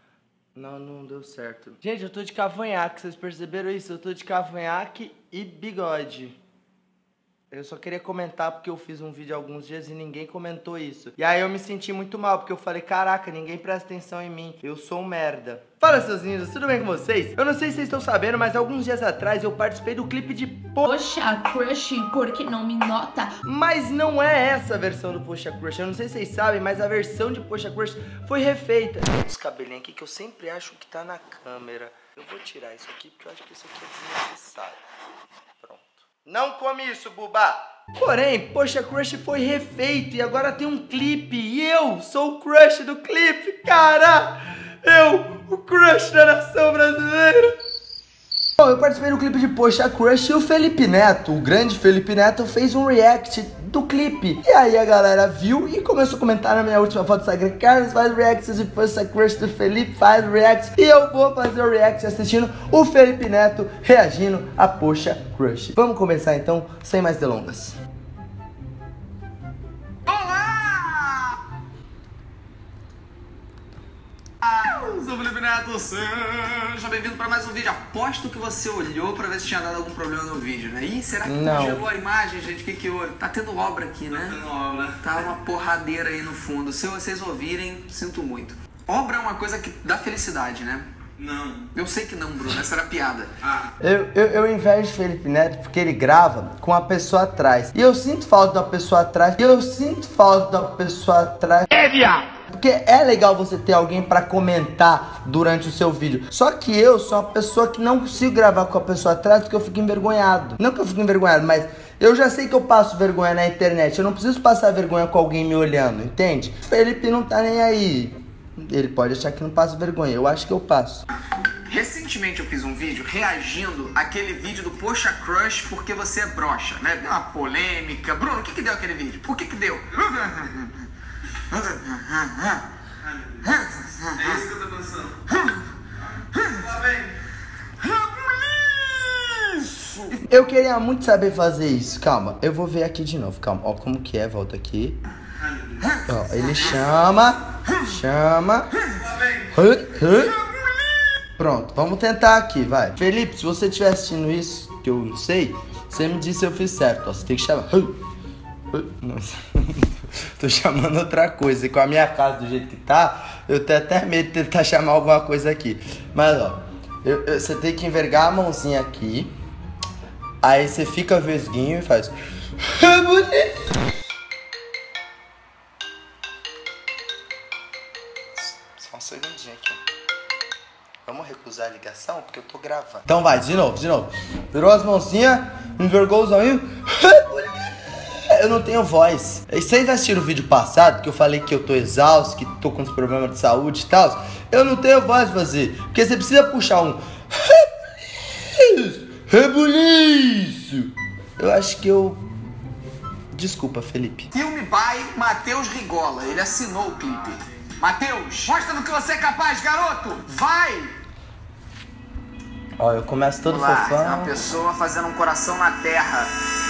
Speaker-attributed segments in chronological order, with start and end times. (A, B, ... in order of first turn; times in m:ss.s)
0:00.6-0:06.4 A
0:07.5-0:20.8 A
0:20.8-0:23.3 B
0:23.4-0:34.8 A
0:35.6-0:47.6 A
0:48.6-1:07.8 A
1:10.0-1:11.4 C
1:14.4-1:24.4 C
1:21.2-1:21.8 A
1:24.1-1:25.0 D
1:25.0-1:30.9 C
1:31.2-1:31.7 D
1:31.7-1:33.3 C
1:33.8-1:41.7 A
1:41.7-1:42.3 C
1:42.5-2:01.0 A
2:01.6-2:10.8 C
2:11.5-2:12.6 C
2:13.2-2:13.5 D
2:13.4-2:14.5 C
2:14.1-2:15.2 D
2:16.3-2:16.6 C
2:16.6-2:16.9 D
2:17.8-2:20.2 C
2:20.2-2:25.0 A
2:25.8-2:26.7 C
2:26.0-2:28.7 A
2:29.5-2:30.4 A
2:31.4-2:38.0 A
2:38.7-2:49.3 A
2:50.4-2:53.5 A
2:58.4-2:59.8 A
3:01.0-3:22.2 A
3:23.3-3:24.3 A
3:24.3-3:30.9 C
3:32.8-3:34.3 A
3:33.4-3:36.3 C